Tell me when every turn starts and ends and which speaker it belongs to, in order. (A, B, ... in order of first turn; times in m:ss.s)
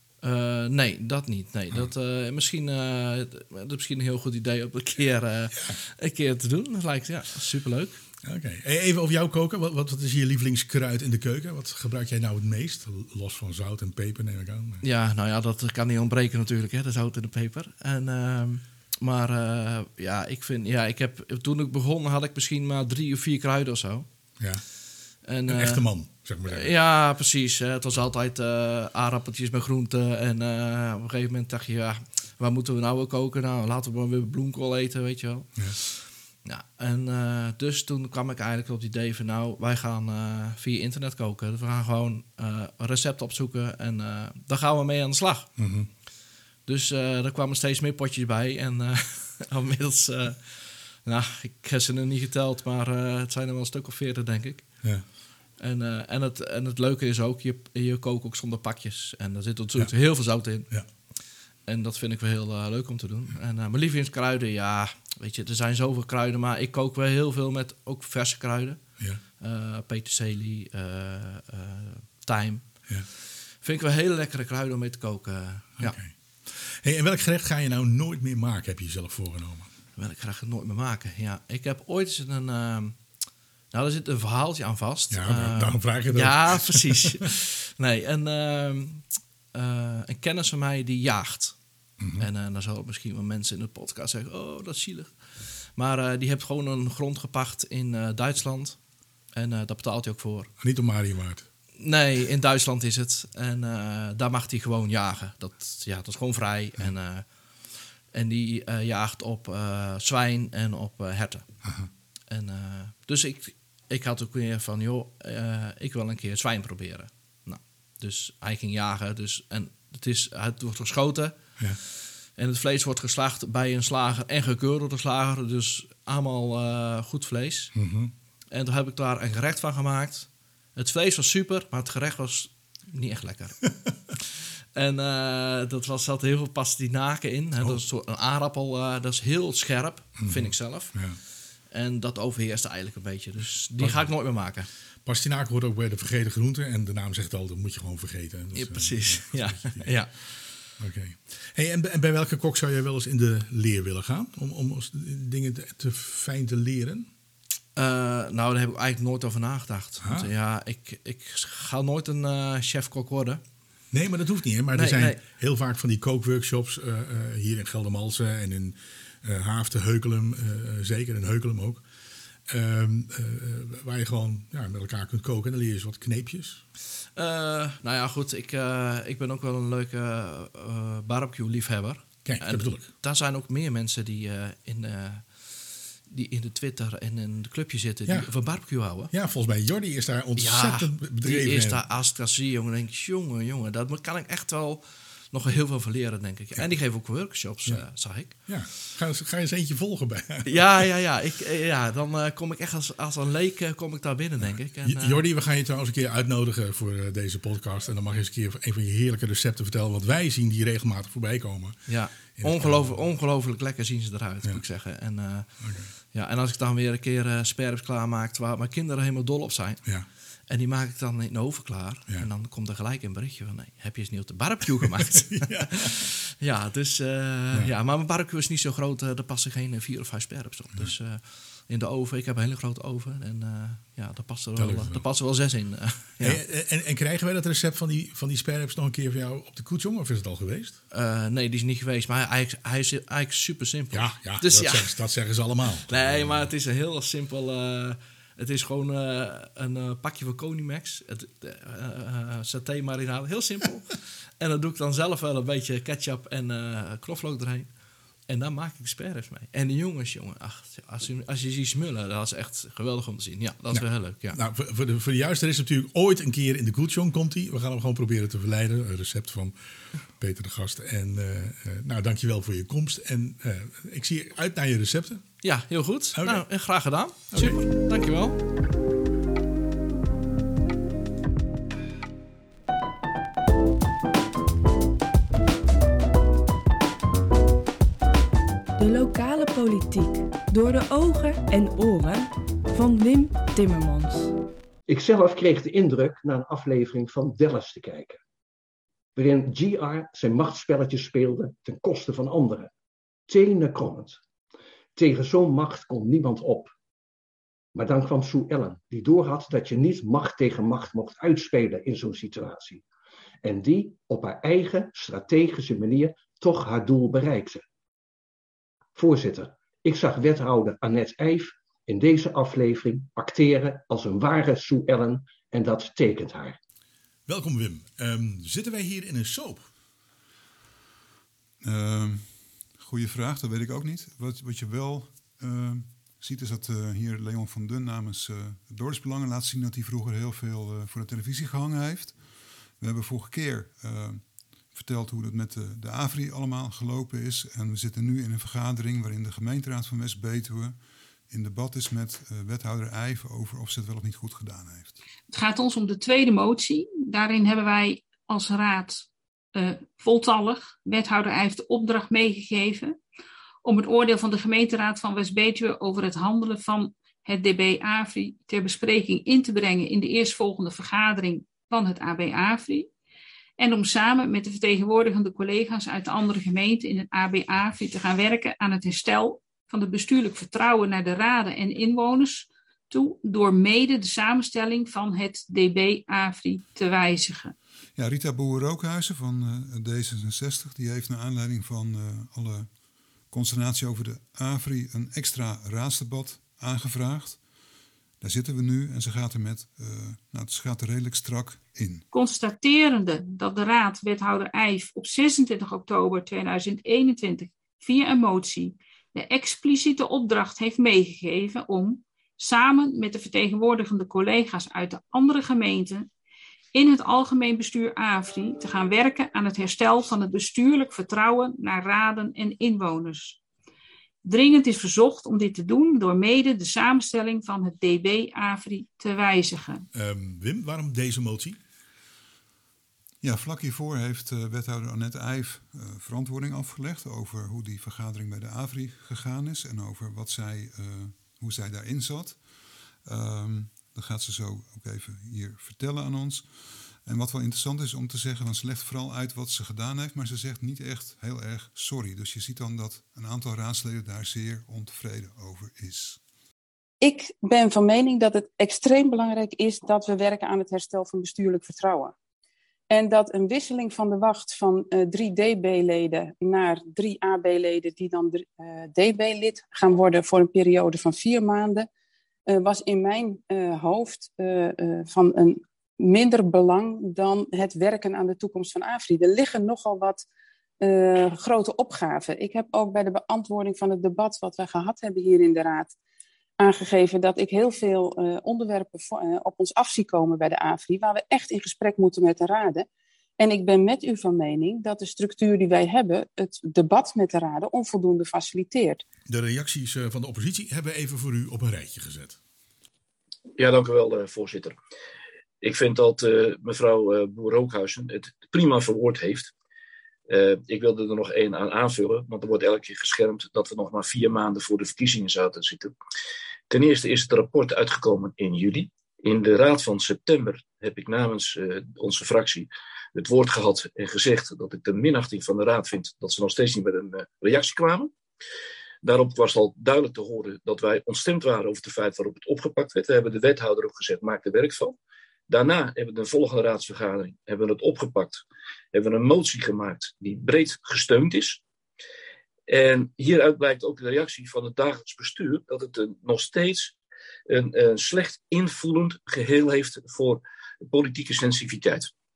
0:00.2-0:08.0 A
0:05.5-0:05.8 B
0:08.2-0:14.8 B
0:14.8-0:24.5 A
0:24.4-0:26.8 B
0:25.2-0:45.5 A
0:45.6-0:45.9 B
0:46.6-1:16.0 A
0:59.8-1:00.9 B
1:15.8-1:19.7 B
1:20.0-1:40.5 A
1:25.1-1:27.2 B
1:32.0-1:32.3 B
1:40.6-1:41.5 B
1:41.8-1:51.7 A
1:51.6-1:51.9 B
1:52.3-2:07.8 A
2:07.7-2:08.1 B
2:08.5-2:13.9 A
2:14.8-2:24.7 A
2:20.2-2:21.2 B
2:23.8-2:24.5 B
2:25.0-2:37.1 B
2:28.5-2:30.6 A
2:37.8-2:43.4 A
2:40.0-2:40.3 B
2:43.9-2:56.6 B
2:44.7-2:45.2 A
2:57.1-3:09.1 A
3:02.2-3:02.9 B
3:08.0-3:11.8 B
3:10.4-3:18.8 A
3:16.6-3:20.8 B
3:20.5-3:25.2 A
3:24.4-3:33.1 B
3:31.9-3:56.4 A
3:35.6-3:35.9 B
3:45.3-3:46.0 B
3:54.6-3:55.1 B
3:56.2-4:00.8 B
4:00.9-4:05.0 A
4:03.9-4:06.5 B
4:05.9-4:24.4 A
4:23.7-4:35.5 B
4:35.4-4:38.4 A
4:36.2-4:37.7 B
4:48.8-4:54.3 C
4:54.9-4:58.2 D
4:59.2-5:02.7 D
5:03.3-5:04.2 D
5:05.0-5:06.7 D
5:07.7-5:12.8 D
5:13.4-5:17.6 D
5:19.0-5:26.6 D
5:27.3-5:29.7 B
5:31.6-5:55.0 E
5:55.3-6:03.0 F
6:03.6-6:12.9 F
6:13.6-6:27.6 F
6:28.0-6:37.4 E
6:38.2-6:42.0 E
6:42.1-6:56.1 F
6:56.7-7:03.4 F
7:04.2-7:09.9 F
7:09.9-7:11.6 B
7:13.2-7:36.2 E
7:37.0-7:42.1 G
7:42.9-7:51.9 G
7:52.5-8:00.2 G
8:00.8-8:06.0 G
8:06.6-8:12.9 G
8:13.4-8:19.0 G
8:19.3-8:22.4 B
8:23.6-8:24.8 H
8:25.6-8:29.5 H
8:30.3-8:35.9 H
8:36.7-8:48.1 H
8:49.0-8:55.0 H
8:55.5-8:58.4 H
8:58.9-9:01.6 H
9:02.7-9:07.0 H
9:07.5-9:12.1 H